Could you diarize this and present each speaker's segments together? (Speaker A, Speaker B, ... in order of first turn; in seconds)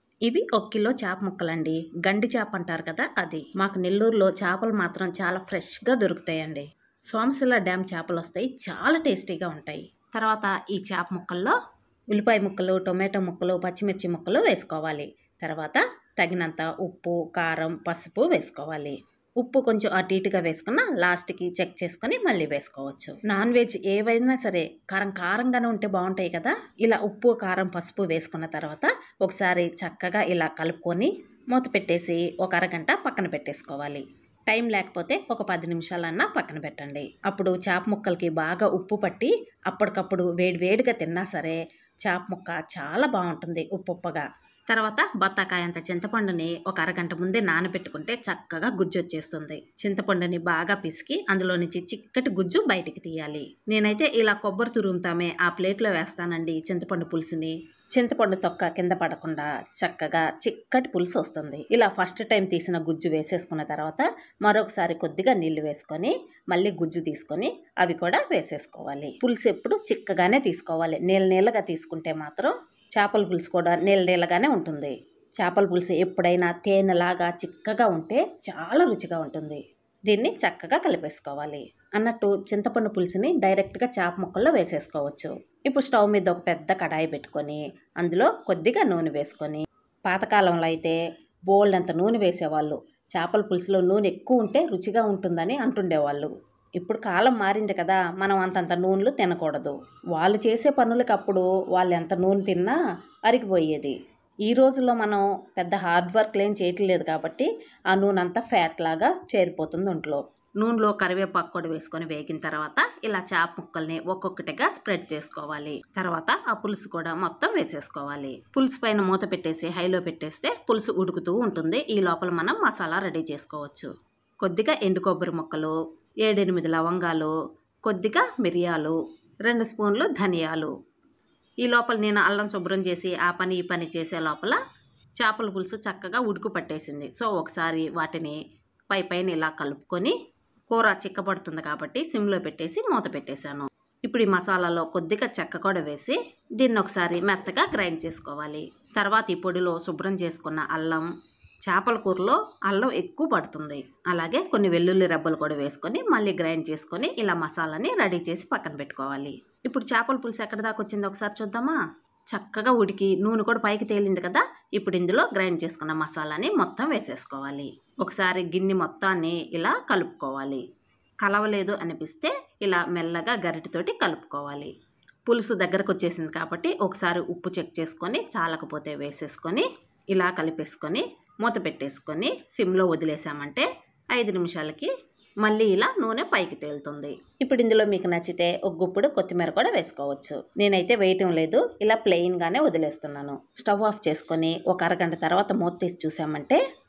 Speaker A: 0.3-11.6, 12.1-91.0, 91.5-104.0, 104.5-123.9, 124.4-127.3, 127.8-130.7, 131.6-134.6, 135.2-138.4, 138.9-140.1, 140.7-151.1, 151.7-161.8, 162.3-170.6, 171.2-174.7, 175.3-184.9, 185.4-196.6